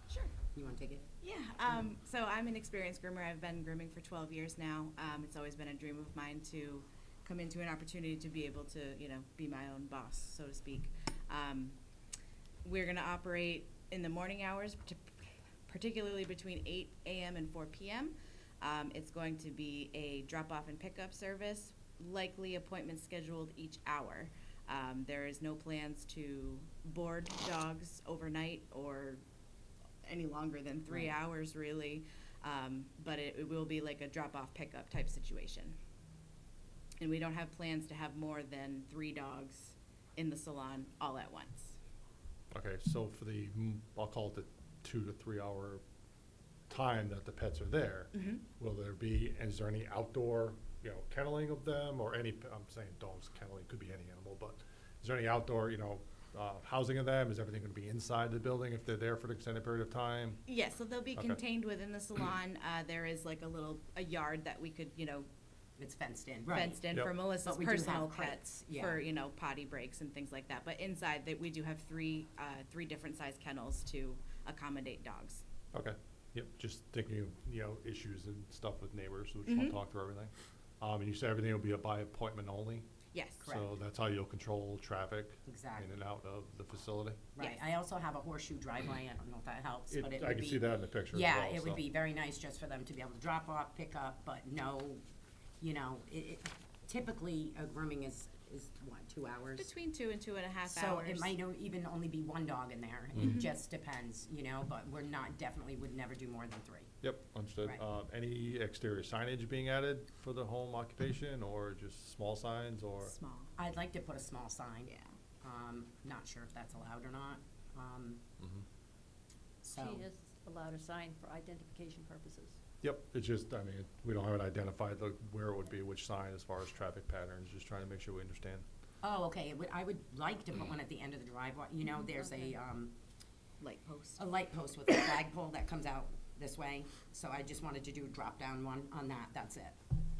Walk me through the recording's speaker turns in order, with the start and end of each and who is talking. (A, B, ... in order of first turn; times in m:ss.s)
0:00.5-0:01.0 A
0:01.2-0:11.8 B
0:12.6-0:15.1 B
0:15.7-0:29.2 B
0:30.0-0:35.8 B
0:37.0-0:41.8 B
0:42.5-0:45.8 C
0:46.7-1:00.4 C
0:48.1-0:48.4 B
1:00.5-1:05.3 B
1:05.8-1:06.8 A
1:06.5-1:15.4 B
1:07.4-1:09.0 A
1:15.7-1:22.9 C
1:19.5-1:19.8 B
1:23.1-1:23.5 B
1:23.4-1:23.7 A
1:23.5-1:27.3 C
1:25.5-1:25.9 A
1:27.4-1:35.0 A
1:29.9-1:31.8 C
1:35.6-1:39.7 A
1:39.6-1:41.3 B
1:40.6-1:46.9 A
1:47.0-1:53.1 C
1:53.0-1:53.5 B
1:53.6-1:58.2 A
1:54.9-1:55.2 B
1:58.4-1:58.6 C
1:59.6-2:00.0 A
1:59.7-2:02.6 D
2:02.8-2:08.7 C
2:09.0-2:13.0 A
2:13.6-2:14.2 B
2:14.2-2:19.8 A